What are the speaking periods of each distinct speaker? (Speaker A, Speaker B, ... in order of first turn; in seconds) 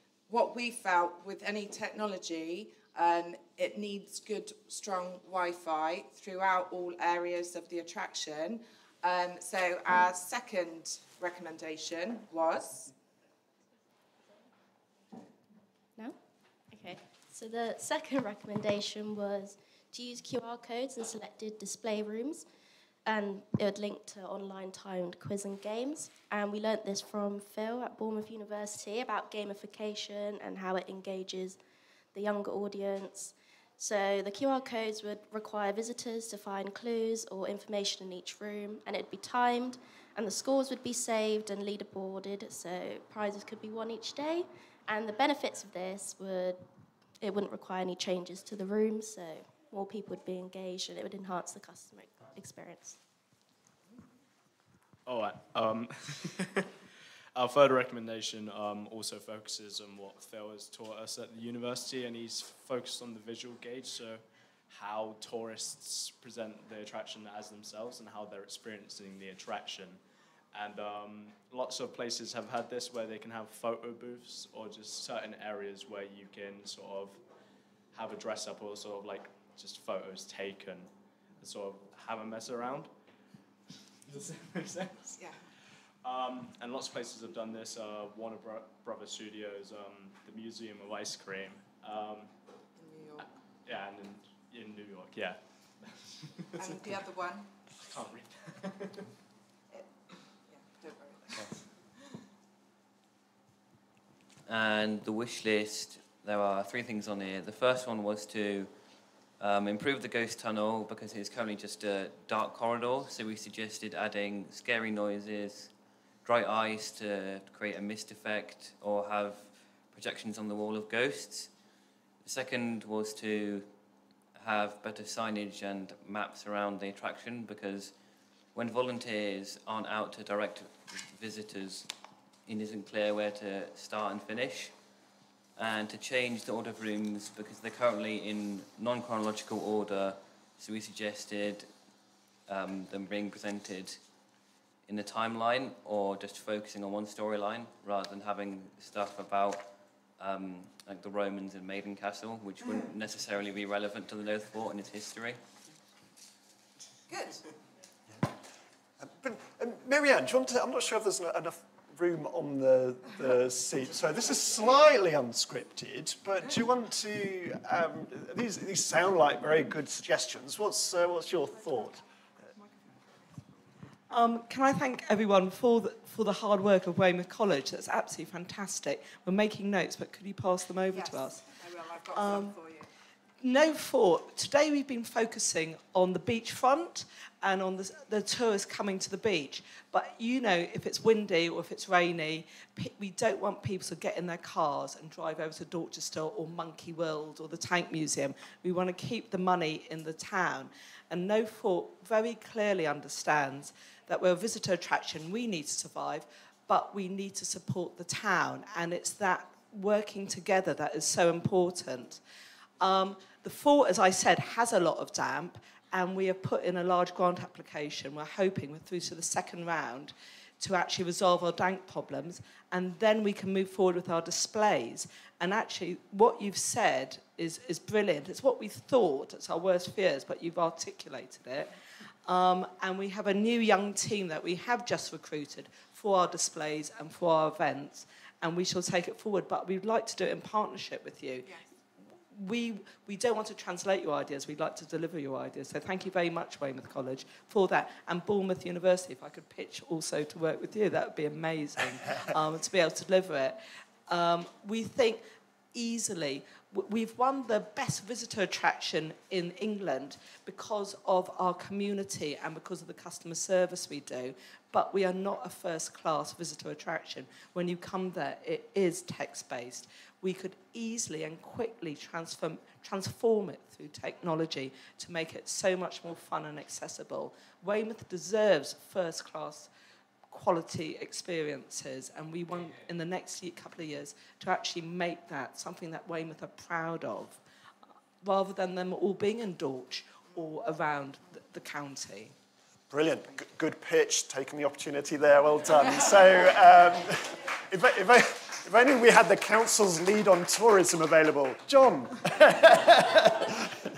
Speaker A: 0.3-12.9, 92.8-93.3, 96.6-97.5, 100.5-101.3, 157.1-157.4, 172.6-172.9, 180.9-182.9
Speaker B: 16.7-22.4, 23.1-31.6, 32.1-46.6, 47.2-52.9
Speaker C: 55.0-56.7, 57.3-70.0, 70.5-77.2, 77.9-82.9, 84.1-85.2, 86.0-92.3, 93.2-97.0, 97.8-99.0, 101.3-101.6
Speaker D: 104.5-108.7, 109.4-115.7, 116.2-121.5, 122.2-123.7, 124.3-127.9, 128.5-131.9, 132.4-134.7, 135.6-141.7, 142.5-144.0, 144.8-149.6, 150.2-155.4
Speaker E: 159.0-172.0, 292.9-302.7
Speaker F: 174.1-181.5, 182.1-182.6, 183.4-212.2, 212.8-231.7, 232.2-279.7, 280.3-287.4, 288.2-292.4